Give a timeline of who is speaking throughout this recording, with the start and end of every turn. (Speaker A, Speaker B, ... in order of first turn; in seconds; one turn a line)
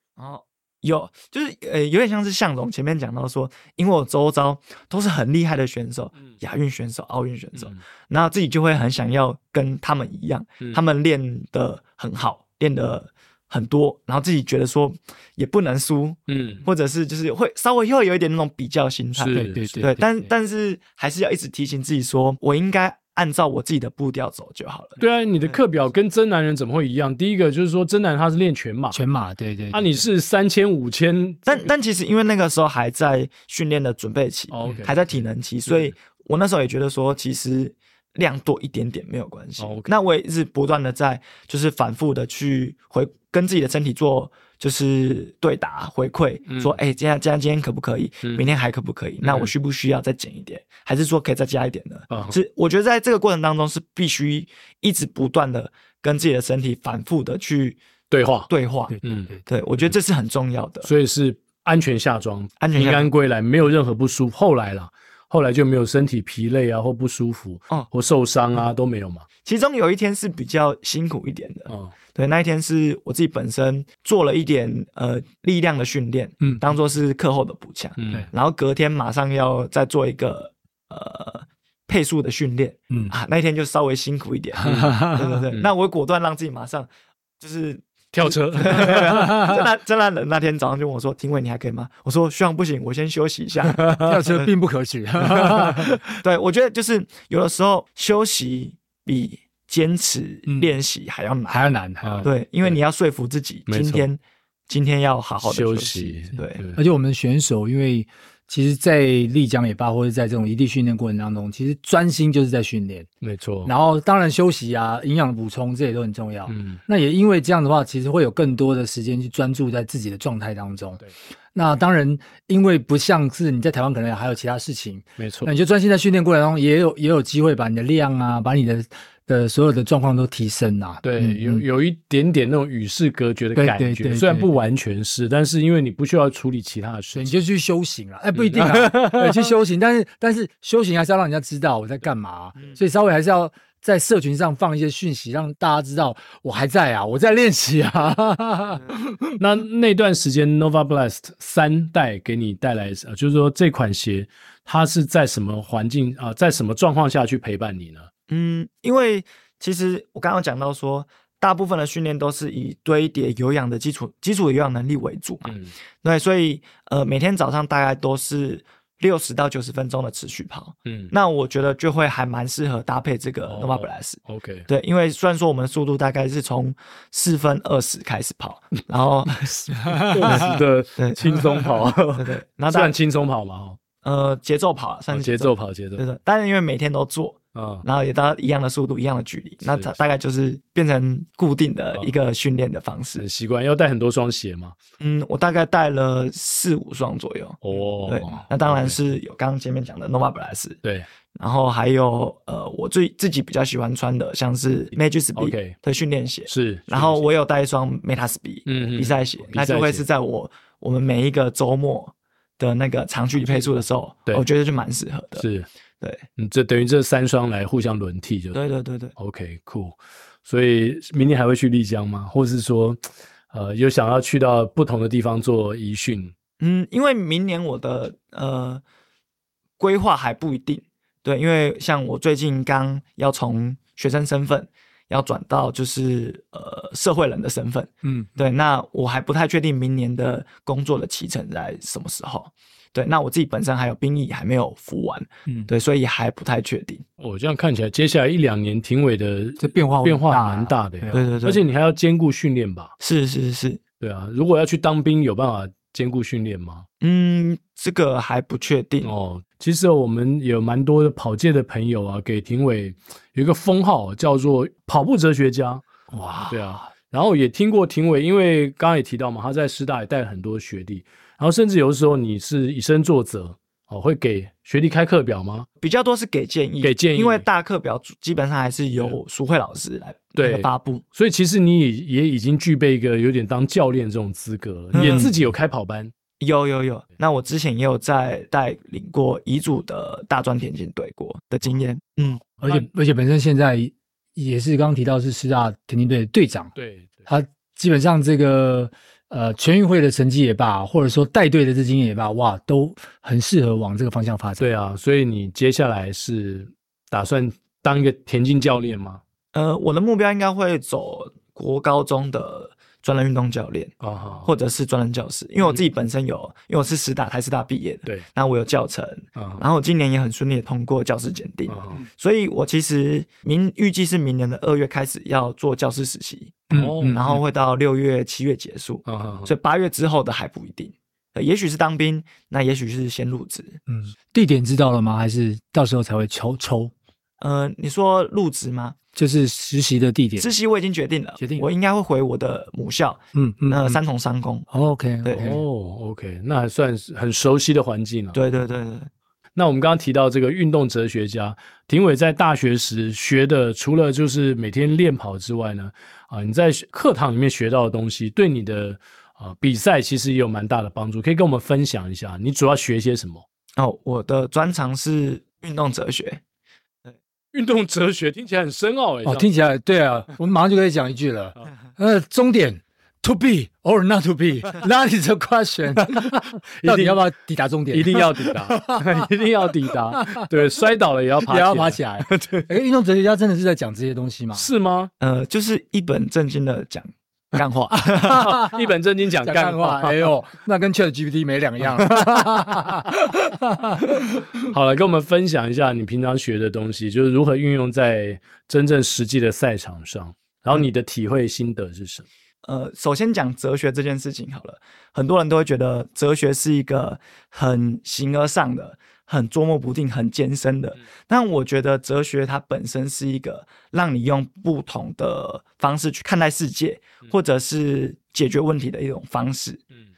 Speaker A: 0.2-25.6
Speaker B: 16.3-16.6
Speaker B: 19.2-19.9
Speaker C: 19.3-20.3
Speaker B: 25.0-29.0
Speaker C: 28.9-30.0
Speaker B: 29.7-31.7
Speaker A: 31.5-57.8
Speaker B: 34.5-35.0
Speaker B: 39.6-39.9
Speaker B: 46.5-46.8
Speaker B: 48.2-48.5
Speaker B: 49.2-49.5
Speaker B: 52.1-52.4
Speaker B: 58.1-58.5
Speaker A: 58.5-60.9
Speaker C: 58.9-59.4
Speaker B: 59.0-59.9
Speaker B: 60.8-69.2
Speaker A: 62.6-63.1
Speaker A: 69.4-86.9
Speaker B: 78.0-78.3
Speaker C: 84.6-85.3
Speaker B: 84.6-85.7
Speaker A: 87.4-94.5
Speaker B: 88.1-89.4
Speaker C: 89.1-89.6
Speaker B: 93.8-94.1
Speaker C: 94.0-96.0
Speaker A: 96.0-101.6
Speaker C: 101.5-102.3
Speaker B: 102.0-102.8
Speaker A: 102.2-106.6
Speaker B: 103.7-104.0
Speaker B: 105.4-106.8
Speaker C: 106.8-113.1
Speaker B: 113.2-113.7
Speaker C: 113.6-121.0
Speaker B: 116.5-116.8
Speaker C: 121.5-131.6
Speaker B: 125.2-125.5
Speaker B: 131.0-137.3
Speaker C: 133.6-134.5
Speaker C: 137.1-149.3
Speaker B: 138.3-139.5
Speaker B: 149.4-158.1
Speaker A: 158.3-181.4
Speaker B: 165.4-165.7
Speaker B: 170.8-171.1
Speaker B: 173.5-174.7
Speaker C: 179.9-180.5
Speaker B: 180.0-183.8
Speaker A: 182.1-182.9
Speaker A: 184.0-193.2
Speaker B: 185.1-186.0
Speaker B: 187.5-187.8
Speaker B: 189.7-189.9
Speaker B: 193.2-194.8
Speaker A: 195.0-200.8
Speaker B: 197.6-199.0
Speaker A: 201.3-215.4
Speaker B: 205.3-205.8
Speaker B: 206.5-207.3
Speaker B: 208.7-210.0
Speaker B: 213.4-214.4
Speaker B: 215.4-215.7
Speaker B: 216.4-218.6
Speaker A: 218.5-219.1
Speaker B: 219.2-226.3
Speaker A: 226.6-228.8
Speaker A: 229.8-247.0
Speaker C: 238.0-238.3
Speaker B: 247.2-252.9
Speaker C: 249.6-251.3
Speaker A: 251.1-251.6
Speaker A: 253.0-253.8
Speaker B: 254.0-256.9
Speaker A: 257.0-259.1
Speaker B: 259.0-275.7
Speaker A: 275.8-281.0
Speaker B: 276.8-277.4
Speaker B: 280.4-286.1
Speaker A: 284.9-285.3
Speaker C: 285.0-285.3
Speaker A: 286.4-292.4
Speaker C: 292.6-296.7
Speaker B: 292.6-292.9
Speaker B: 296.8-297.2
Speaker C: 297.2-304.6
Speaker B: 304.6-309.2
Speaker A: 309.5-333.8
Speaker B: 314.0-314.5
Speaker B: 319.4-319.6
Speaker B: 321.7-322.0
Speaker C: 326.7-327.4
Speaker B: 326.7-327.4
Speaker B: 329.1-329.5
Speaker C: 333.9-336.9
Speaker A: 337.4-338.9
Speaker C: 339.1-340.5
Speaker A: 340.4-344.7
Speaker C: 341.4-341.7
Speaker C: 343.3-344.0
Speaker C: 344.7-345.6
Speaker A: 345.2-345.5
Speaker B: 345.4-348.4
Speaker A: 348.3-349.1
Speaker B: 349.5-363.4
Speaker A: 363.8-366.4
Speaker B: 367.5-369.5
Speaker C: 369.2-379.3
Speaker B: 376.0-377.2
Speaker B: 377.9-382.7
Speaker C: 380.1-380.5
Speaker C: 381.4-384.7
Speaker B: 384.5-385.1
Speaker A: 385.2-388.5
Speaker C: 388.2-388.8
Speaker B: 388.3-390.3
Speaker C: 389.4-394.4
Speaker B: 392.1-392.4
Speaker B: 394.6-402.2
Speaker A: 402.6-419.8